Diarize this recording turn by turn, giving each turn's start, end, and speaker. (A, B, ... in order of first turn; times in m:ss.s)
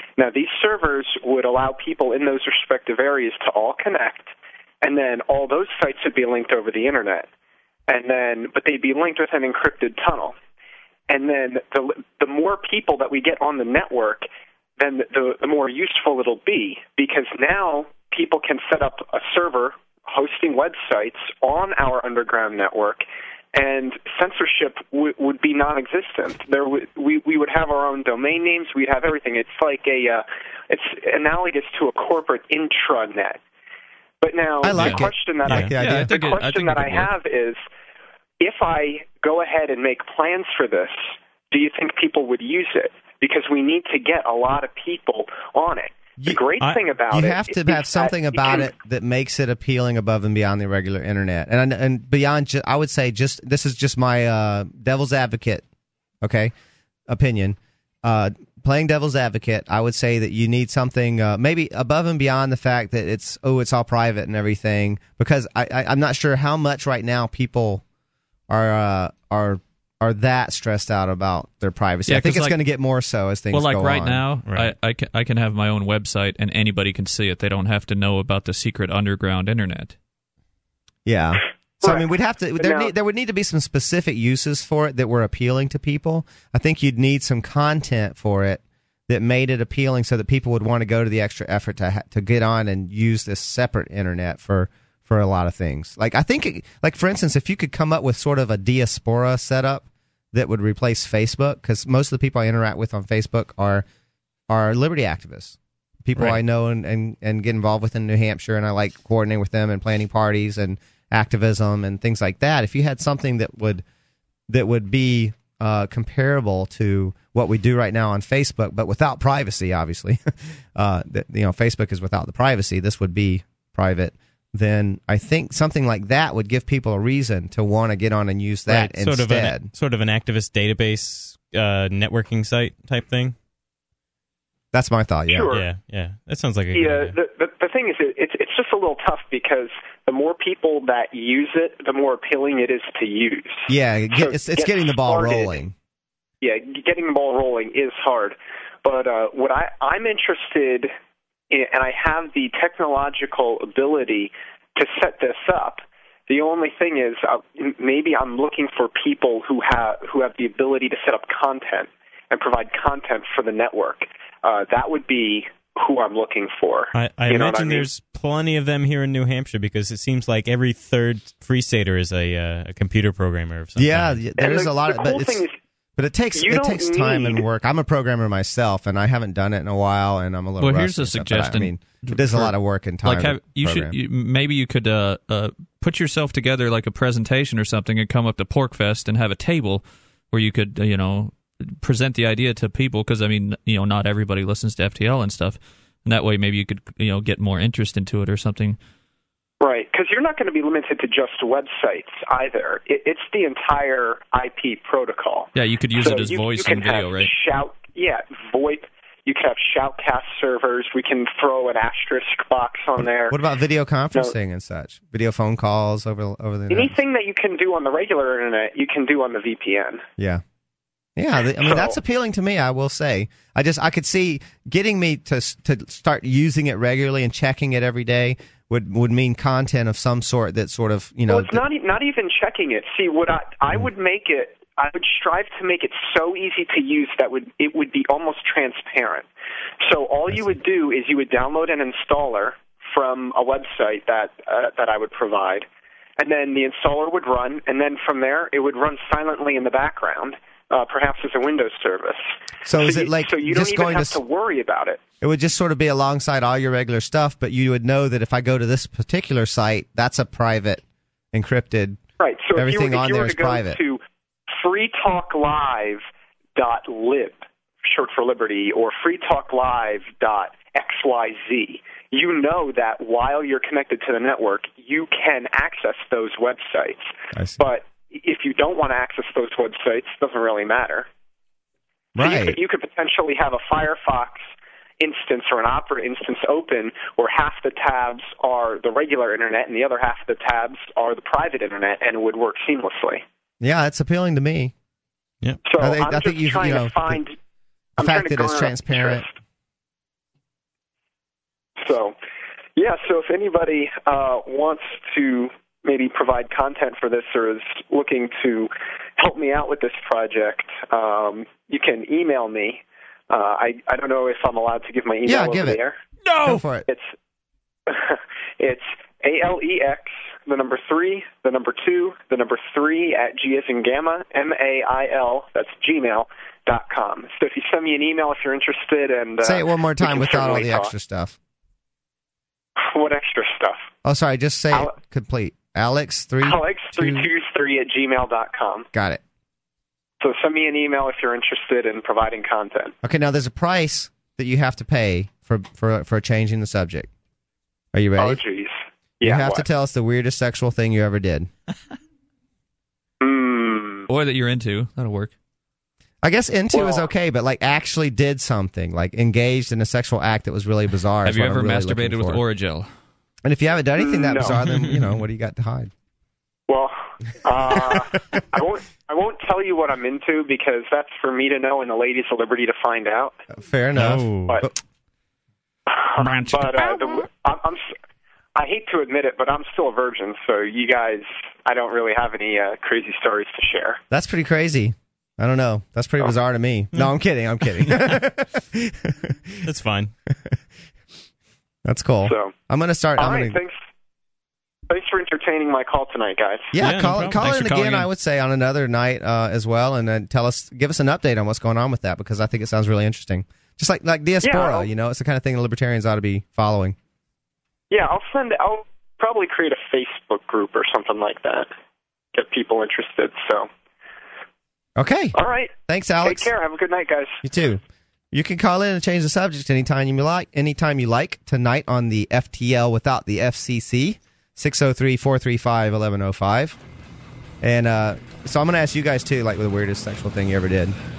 0:00.2-0:07.3 A
0:07.9-0:10.4 A
0:11.1-0:14.3 A
0:14.8-0:33.4 A
0:34.2-0:37.6 A
0:34.6-0:36.1 B
0:34.7-0:37.1 C
0:38.4-0:48.7 A
0:47.1-0:55.6 B
0:56.2-0:56.5 B
0:57.1-1:07.8 B
1:08.5-1:14.2 B
1:12.1-1:12.6 C
1:13.5-1:19.9 C
1:21.0-1:43.8 B
1:21.8-1:22.1 A
1:22.6-1:22.9 A
1:44.5-1:53.8 B
1:54.5-2:00.2 B
2:00.7-2:09.7 B
2:08.7-2:13.3 D
2:14.7-2:15.6 B
2:15.3-2:15.6 A
2:15.5-2:17.2 D
2:16.7-2:25.6 A
2:23.7-2:25.7 B
2:26.4-2:30.9 A
2:31.5-2:47.9 A
2:46.9-2:54.2 D
2:53.8-2:55.4 B
2:54.4-2:55.5 A
2:56.0-3:03.9 B
2:56.3-2:57.4 A
3:00.6-3:18.8 C
3:19.6-3:33.4 A
3:25.5-3:27.3 C
3:33.3-3:36.9 B
3:36.7-3:40.0 A
3:41.2-3:51.6 B
3:41.6-3:42.0 A
3:51.3-3:59.3 A
3:59.8-4:05.7 A
4:06.2-4:15.0 A
4:12.6-4:14.2 B
4:15.2-4:20.8 B
4:21.3-4:22.0 B
4:22.2-4:24.0 A
4:22.5-4:23.8 B
4:24.5-4:26.0 A
4:26.6-4:41.1 A
4:42.2-4:42.6 B
4:42.2-4:44.5 A
4:45.0-4:53.2 A
4:53.6-4:54.7 B
4:55.6-4:57.3 A
4:55.8-4:57.2 B
4:58.0-4:59.2 B
4:58.0-4:59.3 A
5:01.8-5:02.1 A
5:02.8-5:16.0 A
5:15.2-5:15.8 B
5:16.2-5:16.6 C
5:16.4-5:16.8 B
5:16.8-5:17.1 A
5:17.9-5:30.9 A
5:29.4-5:31.4 B
5:32.8-5:33.9 A
5:34.0-5:37.3 B
5:36.4-5:38.9 A
5:38.9-5:39.2 B
5:40.2-5:42.9 A
5:43.0-5:47.1 B
5:47.9-5:48.4 B
5:48.2-5:49.6 A
5:49.2-5:51.5 B
5:53.2-5:54.0 A
5:54.1-5:55.3 C
5:56.2-6:02.4 B
5:56.7-5:57.1 A
6:01.2-6:02.9 C
6:03.4-6:05.9 B
6:04.0-6:04.6 A
6:04.6-6:05.2 D
6:06.7-6:13.4 A
6:07.7-6:08.0 B
6:13.5-6:14.7 B
6:13.9-6:14.6 D
6:15.9-6:17.9 A
6:16.2-6:17.0 C
6:18.6-6:24.0 A
6:24.1-6:29.6 B
6:29.6-6:30.1 D
6:30.3-6:30.6 B
6:31.8-6:33.6 B
6:32.2-6:32.5 A
6:33.2-6:33.8 A
6:34.9-6:36.7 A
6:36.7-6:47.0 B
6:36.8-6:37.4 D
6:37.4-6:38.1 C
6:44.4-6:44.9 A
6:47.9-6:51.7 A
6:52.3-6:53.7 A
6:55.0-6:55.3 B
6:55.3-6:57.4 A
6:55.9-6:56.5 B
6:57.4-6:57.8 B
6:58.3-7:06.8 B
7:07.6-7:11.0 B